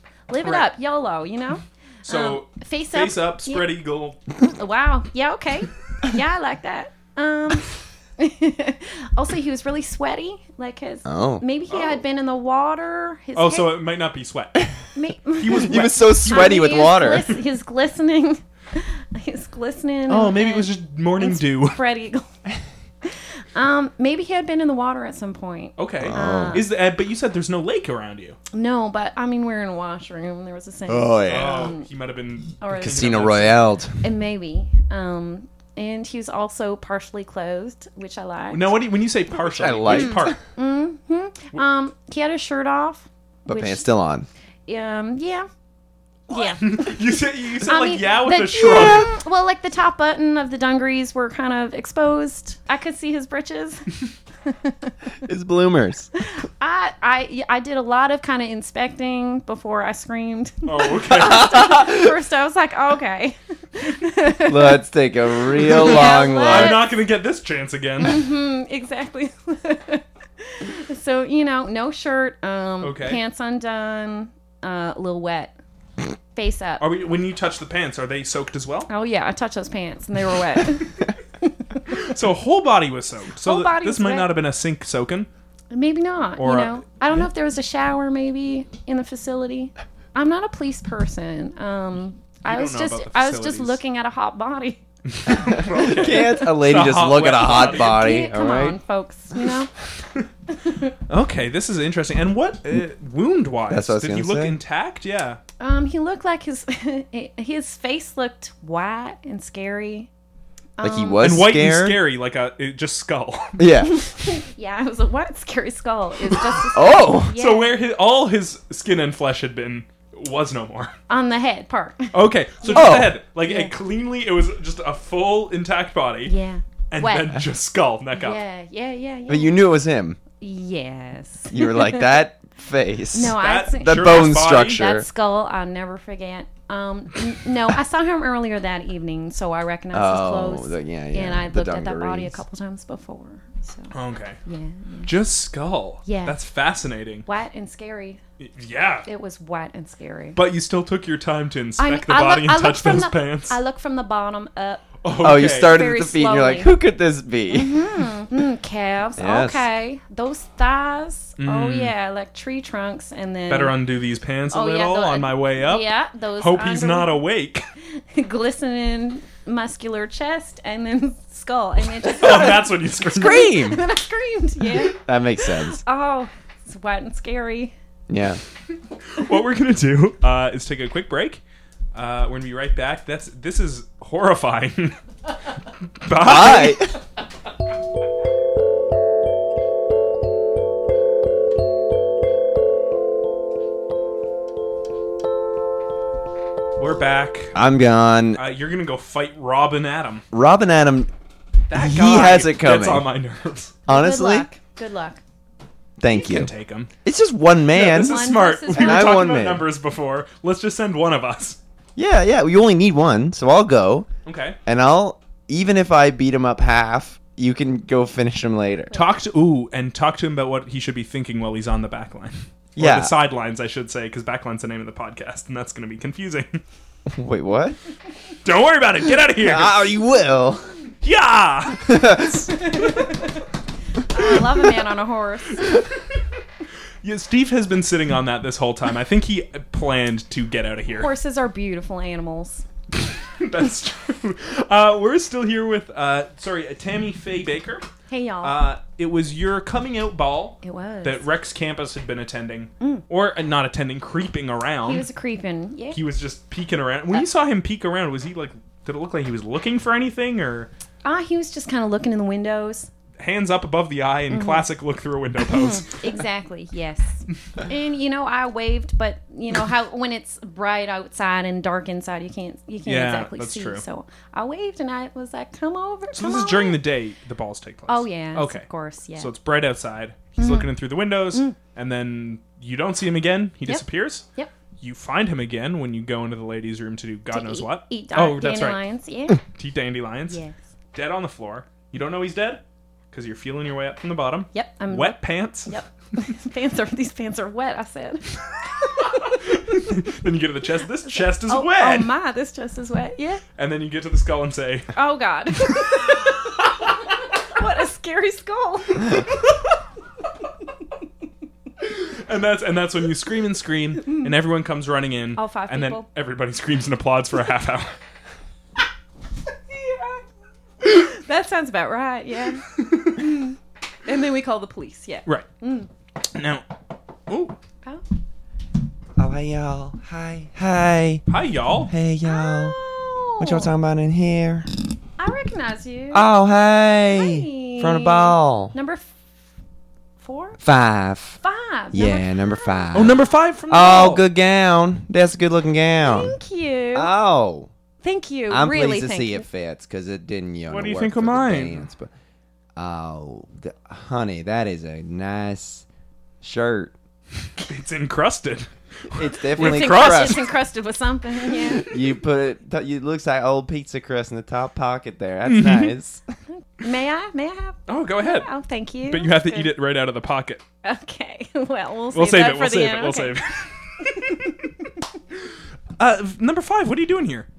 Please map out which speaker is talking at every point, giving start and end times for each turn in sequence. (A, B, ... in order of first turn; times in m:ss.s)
0:00.3-0:03.8 A
0:02.0-0:04.2 B
0:04.4-0:13.8 A
0:11.0-0:11.4 C
0:13.4-0:14.7 B
0:14.9-0:22.2 A
0:15.4-0:16.5 B
0:15.5-0:17.3 C
0:20.1-0:21.8 B
0:23.0-0:26.7 A
0:25.8-0:28.4 B
0:26.0-0:26.6 C
0:28.5-0:31.8 A
0:30.9-0:31.7 C
0:31.3-0:33.6 B
0:32.6-0:33.1 A
0:32.7-0:34.0 C
0:34.0-0:38.8 A
0:38.5-0:40.4 B
0:39.3-0:40.4 C
0:39.9-0:43.8 A
0:43.4-0:44.3 C
0:44.7-0:45.5 A
0:46.3-0:47.0 A
0:46.3-0:49.1 B
0:47.6-0:54.9 A
0:55.2-0:56.1 C
0:56.2-1:04.8 A
1:00.6-1:01.5 B
1:01.4-1:02.1 C
1:04.4-1:06.8 C
1:05.6-1:06.9 A
1:06.1-1:08.2 B
1:08.0-1:15.5 A
1:12.8-1:13.2 B
1:16.3-1:16.8 A
1:16.8-1:18.9 B
1:18.9-1:21.9 A
1:21.9-1:25.3 B
1:23.4-1:24.4 A
1:25.7-1:34.8 A
1:26.4-1:27.2 B
1:32.4-1:33.8 B
1:35.1-1:38.0 B
1:35.3-1:38.8 C
1:37.4-1:39.7 A
1:40.5-1:40.9 A
1:41.1-1:45.4 B
1:43.7-1:44.6 C
1:45.6-1:50.1 A
1:50.8-1:51.3 A
1:50.8-1:52.0 C
1:51.2-1:53.6 B
1:53.6-1:54.0 C
1:53.8-1:57.8 A
1:56.7-1:57.4 C
1:57.3-2:00.9 B
2:01.1-2:03.7 A
2:02.1-2:06.3 B
2:02.7-2:03.2 C
2:06.2-2:07.4 A
2:06.9-2:08.4 B
2:08.2-2:09.6 A
2:09.3-2:10.2 C
2:10.4-2:12.2 A
2:11.5-2:15.1 C
2:13.1-2:23.9 A
2:13.4-2:14.8 B
2:19.9-2:22.4 C
2:23.9-2:24.4 B
2:24.4-2:25.1 A
2:25.0-2:27.2 B
2:26.0-2:26.4 A
2:27.2-2:28.2 A
2:28.4-2:29.1 B
2:29.0-2:30.4 A
2:30.3-2:33.6 B
2:31.8-2:34.9 A
2:35.0-2:35.7 B
2:35.2-2:37.8 C
2:35.5-2:36.7 A
2:37.5-2:43.8 A
2:39.2-2:39.6 C
2:41.4-2:41.9 B
2:43.5-2:45.9 B
2:44.5-2:47.2 A
2:46.4-2:47.6 B
2:48.0-2:57.7 A
2:52.1-2:53.5 B
2:53.0-2:53.8 C
2:54.9-2:55.8 C
2:58.1-2:58.4 C
2:59.0-3:01.4 B
3:01.9-3:05.0 B
3:06.0-3:06.8 B
3:06.1-3:07.0 C
3:16.8-3:17.6 B
3:17.5-3:18.4 C
3:18.4-3:20.2 B
3:20.3-3:21.1 C
3:21.7-3:23.8 B
3:21.7-3:23.1 C
3:23.9-3:24.5 C
3:23.9-3:25.2 A
3:26.0-3:26.5 C
3:26.1-3:26.9 B
3:27.0-3:29.6 C
3:27.7-3:31.6 B
3:27.9-3:29.3 A
3:32.0-3:34.1 C
3:34.2-3:34.6 B
3:34.6-3:38.9 C
3:38.9-3:46.6 B
3:42.8-3:43.1 C
3:47.1-3:47.8 C
3:48.4-3:49.9 B
3:49.4-3:50.7 C
3:51.0-3:52.4 B
3:51.8-3:52.6 C
3:52.7-3:53.4 A
3:54.1-3:55.7 A
3:57.0-4:01.1 B
4:01.0-4:02.6 A
4:03.2-4:07.9 B
4:08.1-4:08.6 A
4:08.4-4:15.0 B
4:10.6-4:11.2 A
4:14.8-4:16.0 A
4:15.9-4:20.7 B
4:21.0-4:22.9 A
4:23.2-4:26.0 B
4:24.3-4:24.6 A
4:25.5-4:36.8 A
4:32.8-4:33.8 B
4:36.1-4:44.2 B
4:37.9-4:39.3 A
4:40.4-4:40.7 A
4:43.6-4:44.5 A
4:44.8-4:48.8 B
4:47.3-4:49.4 A
4:49.5-4:50.4 B
4:50.9-4:55.8 B
4:54.5-4:59.4 A
4:59.0-5:02.1 B
5:01.1-5:03.4 A
5:03.6-5:04.9 B
5:04.9-5:09.2 A
5:11.8-5:17.9 B
5:15.4-5:16.0 A
5:19.7-5:20.2 A
5:20.8-5:25.9 A
5:22.8-5:23.2 B
5:26.2-5:26.6 B
5:27.3-5:27.6 B
5:29.2-5:31.2 C
5:31.3-5:31.9 B
5:31.9-5:32.8 C
5:32.2-5:33.7 A
5:33.4-5:34.7 C
5:35.2-5:36.3 A
5:36.1-5:38.7 C
5:37.1-5:39.1 A
5:40.2-5:40.6 A
5:40.6-5:41.4 C
5:41.4-5:43.2 A
5:41.9-5:46.3 C
5:42.9-5:44.2 B
5:46.0-5:47.1 A
5:46.9-5:47.7 C
5:48.0-5:49.4 A
5:48.5-5:52.1 C
5:50.7-5:51.8 B
5:52.8-5:55.8 C
5:56.4-5:56.9 C
5:57.6-6:00.4 B
5:59.1-6:00.5 C
5:59.5-6:01.9 A
6:01.7-6:06.2 C
6:05.4-6:05.9 B
6:06.7-6:09.7 A
6:07.9-6:08.5 B
6:09.1-6:10.6 B
6:10.8-6:13.4 A
6:12.1-6:14.6 B
6:14.0-6:14.6 A
6:16.0-6:17.5 B